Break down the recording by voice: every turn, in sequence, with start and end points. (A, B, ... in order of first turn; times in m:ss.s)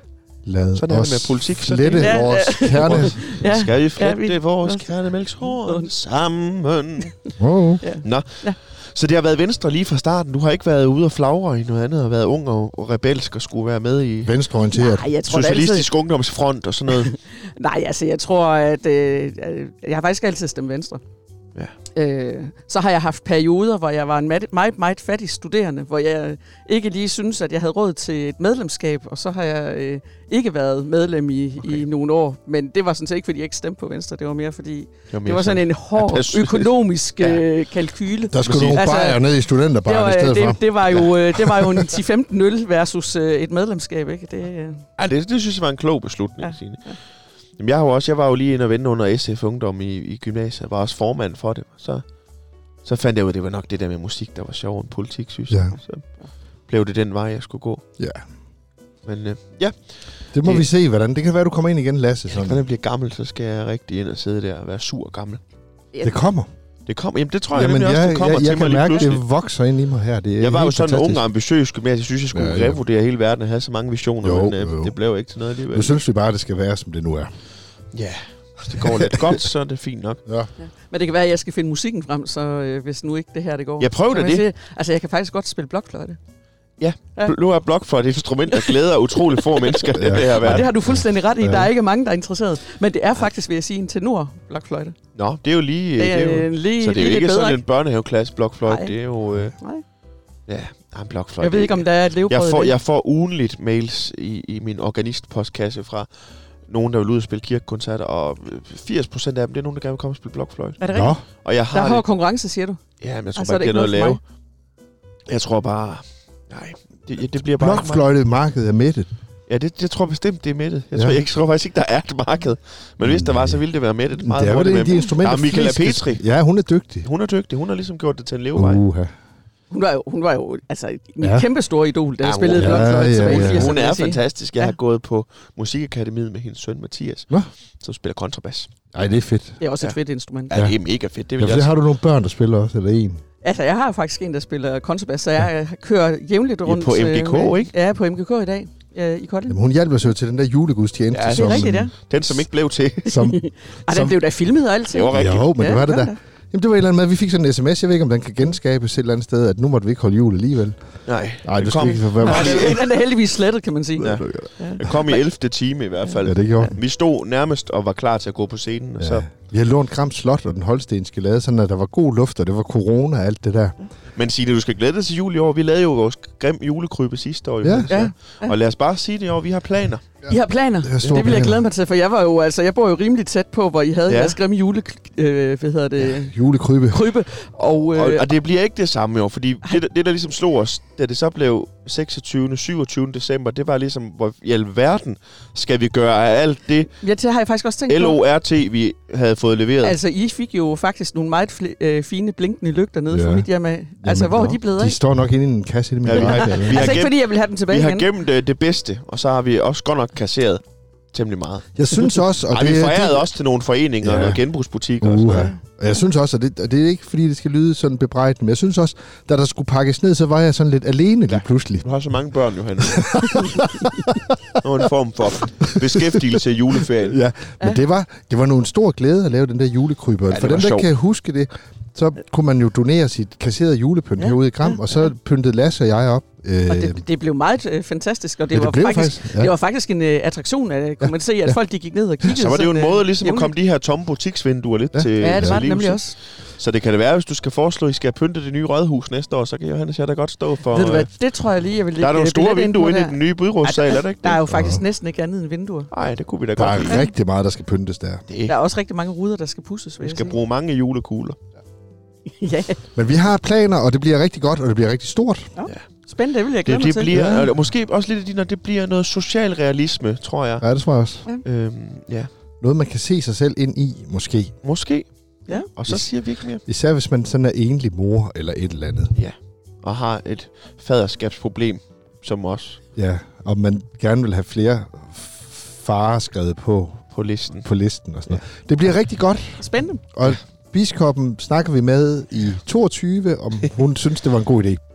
0:00.4-0:03.2 A
0:00.8-0:07.1 B
0:02.0-0:05.9 C
0:07.4-0:07.8 A
0:07.8-0:08.6 C
0:08.0-0:14.3 B
0:14.2-0:15.1 A
0:14.7-0:15.9 C
0:15.3-0:17.1 B
0:17.0-0:21.0 C
0:21.9-0:39.2 C
0:35.1-0:37.4 B
0:38.3-0:40.6 A
0:38.4-0:38.9 B
0:39.8-0:44.8 C
0:41.4-0:41.8 A
0:45.0-0:46.9 B
0:46.4-0:46.9 C
0:47.6-0:52.0 B
0:52.8-0:56.0 B
0:55.5-0:55.8 A
0:56.7-0:57.8 B
0:59.0-1:00.6 B
1:00.3-1:02.6 A
1:02.3-1:05.4 B
1:05.9-1:06.2 C
1:06.0-1:06.5 A
1:06.9-1:09.2 B
1:07.5-1:11.2 A
1:10.4-1:16.0 B
1:12.3-1:12.8 A
1:14.2-1:14.9 A
1:15.7-1:17.3 A
1:17.9-1:20.2 B
1:18.8-1:19.3 A
1:20.6-1:26.2 C
1:23.8-1:24.4 B
1:26.8-1:30.7 B
1:29.5-1:35.0 C
1:29.9-1:31.7 A
1:35.1-1:39.5 B
1:36.0-1:37.6 C
1:38.6-1:39.0 C
1:39.6-1:39.8 C
1:40.5-1:46.1 B
1:41.4-1:42.7 C
1:46.7-1:52.0 B
1:50.8-1:51.2 C
1:50.9-1:51.2 A
1:51.7-1:52.8 C
1:53.0-1:54.2 B
1:53.4-1:54.2 C
1:55.3-1:58.0 B
1:57.6-1:59.1 A
1:59.5-2:06.2 B
2:03.0-2:03.6 A
2:04.2-2:07.1 A
2:07.0-2:08.8 B
2:08.6-2:09.1 A
2:09.7-2:14.7 C
2:11.2-2:11.5 A
2:12.2-2:18.7 B
2:12.5-2:13.8 A
2:18.9-2:19.6 A
2:19.6-2:20.6 C
2:20.5-2:21.7 B
2:20.5-2:20.8 A
2:21.4-2:23.2 A
2:23.4-2:29.6 C
2:26.6-2:27.7 B
2:29.5-2:31.9 A
2:31.1-2:33.2 B
2:31.3-2:31.9 C
2:33.0-2:33.4 A
2:33.0-2:36.2 C
2:34.9-2:35.6 B
2:35.1-2:40.8 A
2:41.1-2:42.9 B
2:41.4-2:42.8 A
2:42.2-2:45.2 C
2:44.0-2:44.9 A
2:44.0-2:49.3 B
2:46.1-2:46.7 C
2:46.2-2:46.8 A
2:49.0-2:53.7 A
2:54.2-3:00.0 B
2:57.6-2:57.9 A
2:57.9-2:58.5 C
3:00.3-3:06.3 C
3:00.8-3:01.6 A
3:01.0-3:01.4 B
3:04.1-3:04.4 B
3:06.0-3:07.1 A
3:06.9-3:08.3 C
3:07.9-3:16.9 B
3:17.0-3:18.2 C
3:17.9-3:20.0 B
3:19.8-3:25.0 C
3:23.1-3:23.5 A
3:24.0-3:27.0 A
3:26.0-3:30.6 B
3:26.1-3:28.1 C
3:31.1-3:31.8 B
3:31.8-3:33.2 A
3:32.5-3:35.5 B
3:34.0-3:34.4 A
3:35.0-3:41.9 A
3:35.3-3:35.6 C
3:41.3-3:43.7 B
3:42.8-3:44.6 A
3:44.6-3:47.2 B
3:45.6-3:46.4 A
3:47.0-3:57.0 A
3:50.3-3:50.9 B
3:56.7-4:03.5 C
3:58.5-3:59.5 A
4:01.0-4:01.6 A
4:02.3-4:06.0 B
4:04.9-4:05.6 A
4:05.2-4:06.1 C
4:06.6-4:11.1 B
4:10.7-4:15.9 C
4:12.0-4:14.4 B
4:14.5-4:14.8 A
4:15.9-4:17.0 B
4:16.6-4:18.2 A
4:18.3-4:18.5 B
4:18.5-4:20.4 C
4:20.0-4:21.4 B
4:22.3-4:22.8 C
4:22.9-4:25.5 A
4:25.6-4:27.1 C
4:26.6-4:30.6 B
4:27.1-4:27.5 A
4:30.6-4:31.2 A
4:31.4-4:32.3 B
4:32.6-4:34.5 A
4:34.6-4:36.6 B
4:36.6-4:39.1 A
4:39.2-4:42.8 B
4:43.0-4:47.0 A
4:47.1-4:47.6 B
4:47.6-4:54.8 A
4:49.6-4:50.0 C